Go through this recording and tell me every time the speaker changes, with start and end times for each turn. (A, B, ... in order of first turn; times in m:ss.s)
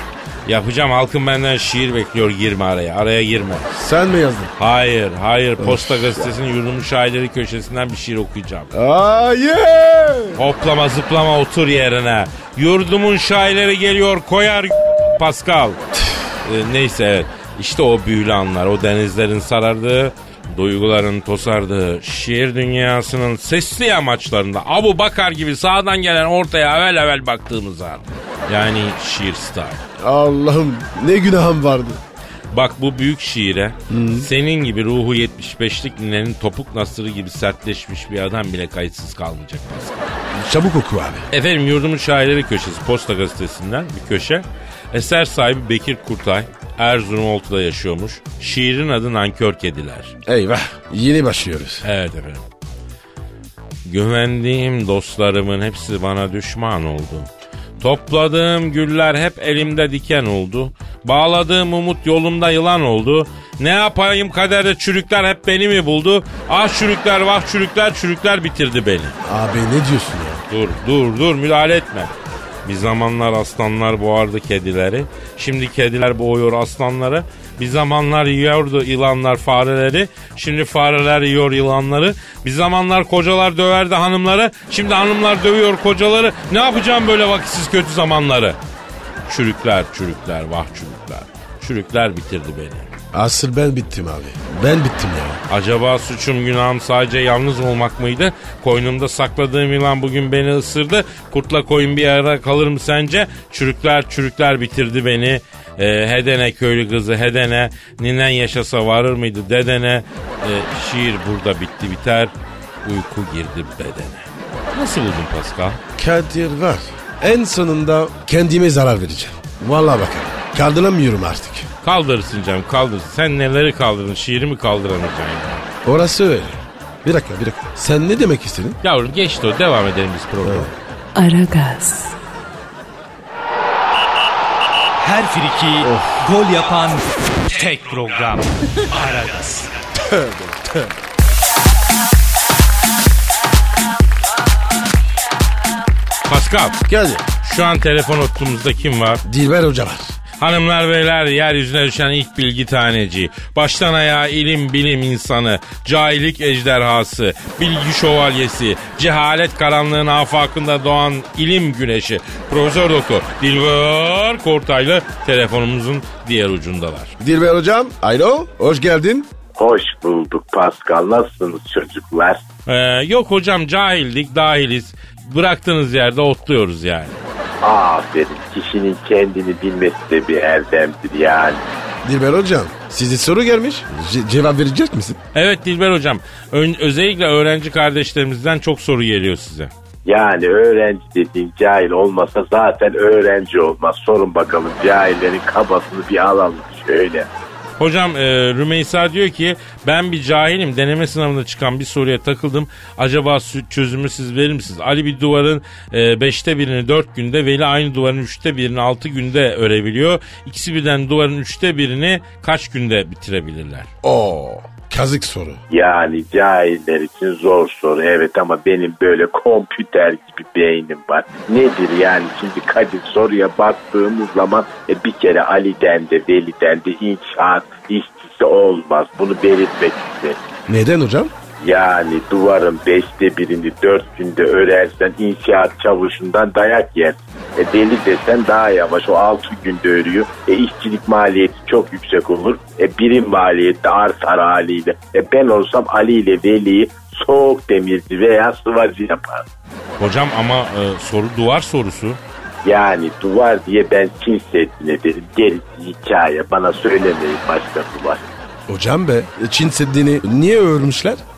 0:00.4-0:03.6 A
0:03.7-0:04.5 B
0:04.6-0:08.7 A
0:05.6-0:06.3 B
0:08.7-0:10.4 B
0:10.4-0:15.8 A
0:16.4-0:29.8 A
0:30.0-0:32.0 B
0:32.5-0:40.1 A
0:33.9-0:34.3 B
0:40.3-0:41.2 B
0:41.3-0:50.1 A
0:50.2-0:51.8 B
0:51.8-0:52.4 A
0:53.8-0:57.3 A
0:57.8-1:09.1 A
1:09.2-1:10.4 B
1:10.5-1:12.1 A
1:12.6-1:28.6 A
1:29.3-1:32.9 A
1:33.1-1:35.4 B
1:35.5-1:52.3 A
1:52.8-1:55.8 A
1:56.0-2:01.7 B
2:01.8-2:05.6 A
2:05.8-2:08.8 B
2:08.8-2:10.7 A
2:10.4-2:10.7 B
2:11.2-2:12.1 C
2:15.0-2:19.7 C
2:15.8-2:16.2 B
2:20.0-2:20.9 B
2:26.3-2:26.8 A
2:26.9-2:27.2 B
2:27.4-2:29.2 A
2:29.2-2:30.1 B
2:30.4-2:47.1 A
2:47.2-2:49.3 B
2:49.6-2:52.4 D
2:52.7-2:57.2 A
2:57.6-3:01.6 D
3:02.0-3:05.2 B
3:05.3-3:09.7 A
3:10.0-3:17.3 D
3:17.8-3:33.9 A
3:34.0-3:35.6 B
3:35.7-3:50.4 D
3:50.7-3:51.3 B
3:51.6-4:09.4 D
4:10.0-4:12.2 A
4:12.6-4:18.2 D
4:18.7-4:21.2 B